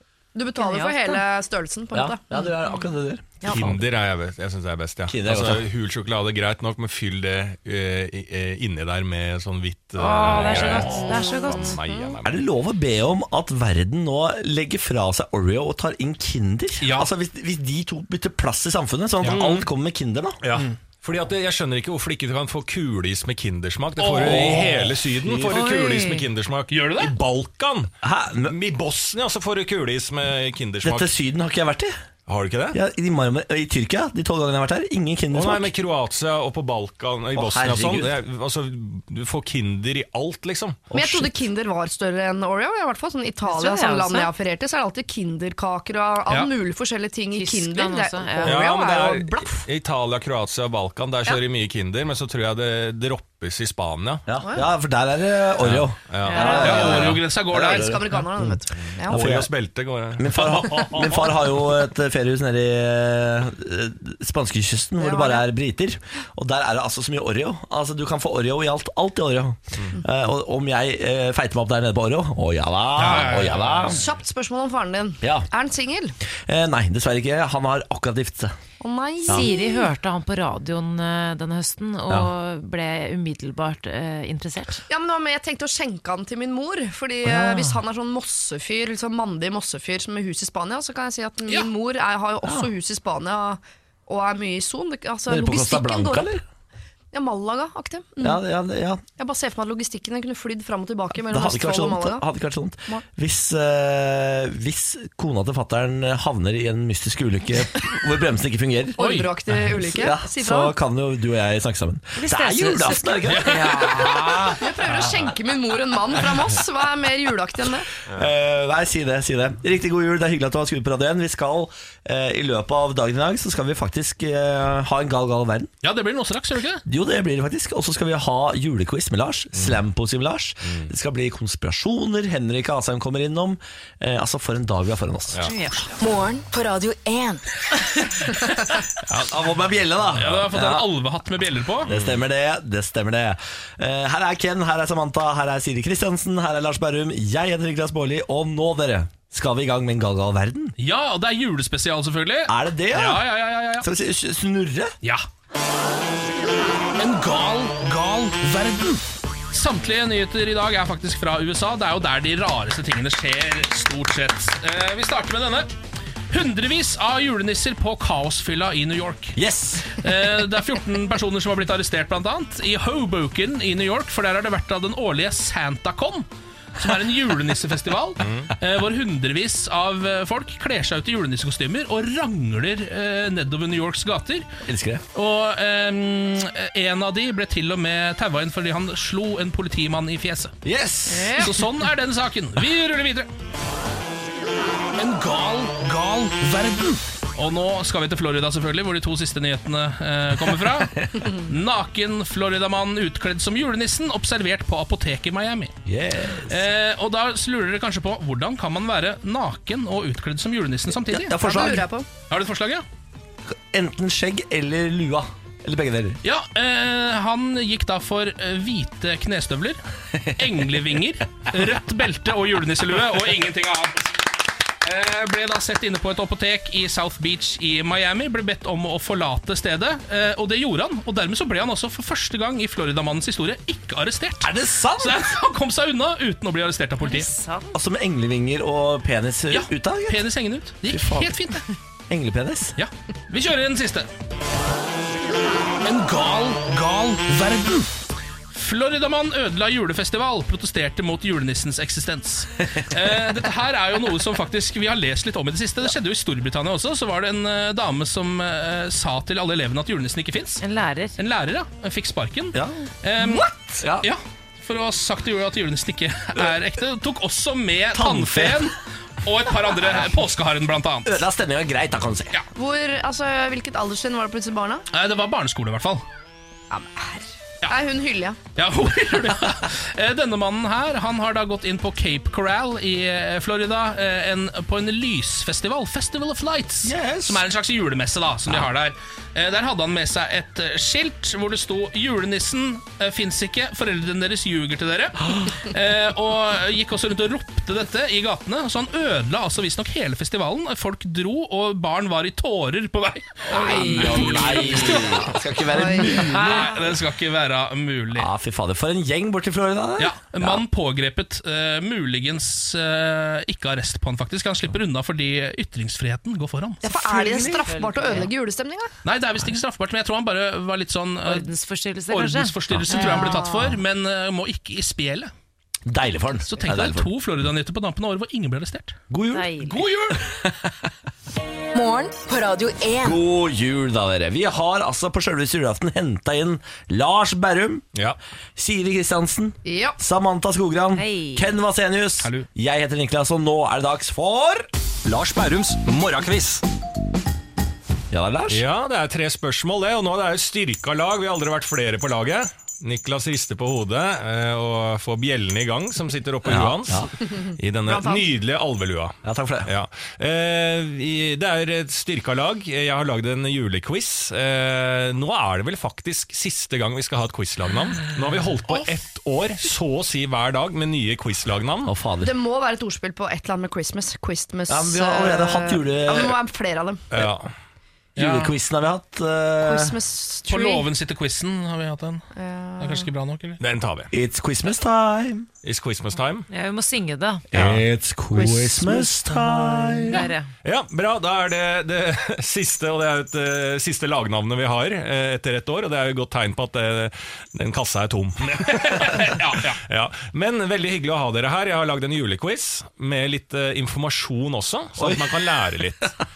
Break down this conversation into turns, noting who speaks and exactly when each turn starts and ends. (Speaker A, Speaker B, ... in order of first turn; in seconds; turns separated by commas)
Speaker A: 0.3-2.5, Speaker B: 0.6-1.2, Speaker C: 1.9-3.8, Speaker A: 3.4-3.7, Speaker D: 3.5-12.4, Speaker C: 5.1-5.7, Speaker B: 10.0-11.8, Speaker A: 11.1-12.2, Speaker C: 12.2-20.4, Speaker E: 16.8-17.1, Speaker E: 19.2-19.5, Speaker D: 20.4-27.9, Speaker E: 24.0-24.7, Speaker C: 24.4-25.6, Speaker B: 25.5-26.3, Speaker E: 26.7-27.1, Speaker C: 28.0-28.5, Speaker D: 28.4-31.1, Speaker C: 30.8-32.0, Speaker D: 32.3-32.8, Speaker C: 32.7-35.7, Speaker D: 35.3-40.9, Speaker C: 37.4-38.1, Speaker C: 40.9-41.3, Speaker A: 40.9-49.6, Speaker B: 43.5-44.3, Speaker B: 47.3-48.7, Speaker D: 48.4-54.2, Speaker C: 54.3-58.6, Speaker D: 55.6-57.2, Speaker B: 56.2-56.8, Speaker A: 56.4-59.2, Speaker E: 56.5-58.2, Speaker D: 59.1-61.3, Speaker C: 59.1-59.5, Speaker C: 60.2-74.0, Speaker E: 60.4-60.8, Speaker A: 65.0-65.5, Speaker E: 73.0-74.0, Speaker A: 73.9-76.2, Speaker C: 75.2-75.5, Speaker C: 76.5-78.5, Speaker A: 78.8-79.9, Speaker B: 79.3-84.8, Speaker A: 84.9-96.3, Speaker C: 87.2-87.8, Speaker C: 92.4-92.7, Speaker C: 95.3-96.4, Speaker A: 97.1-98.4, Speaker C: 98.2-99.0, Speaker A: 99.2-102.3, Speaker C: 101.3-109.0, Speaker A: 109.0-110.7, Speaker E: 109.0-109.3, Speaker C: 109.9-114.5, Speaker B: 112.2-113.5, Speaker E: 113.3-114.6, Speaker A: 114.6-117.9, Speaker C: 118.1-125.7, Speaker E: 125.8-126.8, Speaker C: 126.9-135.4, Speaker D: 129.6-129.8, Speaker B: 135.4-135.9, Speaker F: 136.0-137.4, Speaker C: 139.1-140.9, Speaker E: 140.1-141.9, Speaker C: 141.9-150.8, Speaker D: 141.9-142.2, Speaker E: 150.8-153.9, Speaker C: 152.5-154.9, Speaker E: 156.9-165.7, Speaker E: 166.3-169.4, Speaker C: 169.3-170.0, Speaker E: 169.9-176.3, Speaker E: 176.8-184.5, Speaker D: 178.2-178.5, Speaker C: 184.7-185.0, Speaker E: 185.1-190.6, Speaker C: 190.6-191.5, Speaker A: 191.1-191.5, Speaker E: 191.3-193.3, Speaker E: 194.9-205.8, Speaker C: 205.9-206.6, Speaker E: 206.5-211.5, Speaker C: 211.1-211.9, Speaker A: 211.4-212.1, Speaker E: 212.3-212.9, Speaker C: 213.7-216.2, Speaker E: 216.2-224.2, Speaker E: 224.8-237.3, Speaker C: 234.4-235.2, Speaker B: 237.0-237.7, Speaker C: 237.7-240.2, Speaker E: 239.5-241.7, Speaker C: 240.8-241.4, Speaker C: 242.1-242.8, Speaker E: 242.8-244.1, Speaker E: 245.8-260.6, Speaker B: 260.6-261.2, Speaker E: 261.2-271.1, Speaker C: 262.5-264.1, Speaker C: 267.9-268.7, Speaker C: 271.1-272.4, Speaker A: 272.6-274.9, Speaker E: 274.9-276.1, Speaker A: 276.7-278.4, Speaker E: 278.6-305.3, Speaker C: 286.8-287.4, Speaker C: 303.4-306.8, Speaker B: 303.7-304.3, Speaker A: 305.7-306.3, Speaker E: 306.0-308.3, Speaker C: 308.1-310.6, Speaker E: 310.0-316.8, Speaker A: 316.8-318.9, Speaker C: 317.1-317.6, Speaker B: 317.3-318.3, Speaker E: 319.0-321.5, Speaker B: 321.2-323.6, Speaker E: 322.1-325.3, Speaker A: 323.1-323.5, Speaker C: 325.9-327.1, Speaker E: 326.5-329.0, Speaker C: 329.1-330.5, Speaker B: 329.3-329.9, Speaker F: 331.7-333.2, Speaker C: 333.0-337.9, Speaker C: 338.6-344.7, Speaker A: 339.6-340.0, Speaker B: 341.0-341.5, Speaker E: 342.2-342.5, Speaker D: 345.1-346.6, Speaker C: 348.1-348.6, Speaker D: 348.5-371.9, Speaker C: 356.4-357.1, Speaker A: 357.3-358.3, Speaker C: 359.2-359.7, Speaker C: 371.9-372.3, Speaker A: 372.2-377.0, Speaker C: 374.7-376.4, Speaker D: 377.1-377.5, Speaker E: 378.2-378.6, Speaker C: 378.2-379.9, Speaker A: 379.6-380.9, Speaker E: 380.5-382.3, Speaker A: 382.3-383.1, Speaker E: 382.8-383.6, Speaker D: 383.6-384.1, Speaker C: 384.1-385.5, Speaker D: 385.6-386.5, Speaker B: 386.5-387.8, Speaker C: 387.5-390.2, Speaker D: 387.5-387.8, Speaker B: 390.1-390.5, Speaker D: 390.6-406.1, Speaker E: 398.5-399.8, Speaker C: 405.0-405.3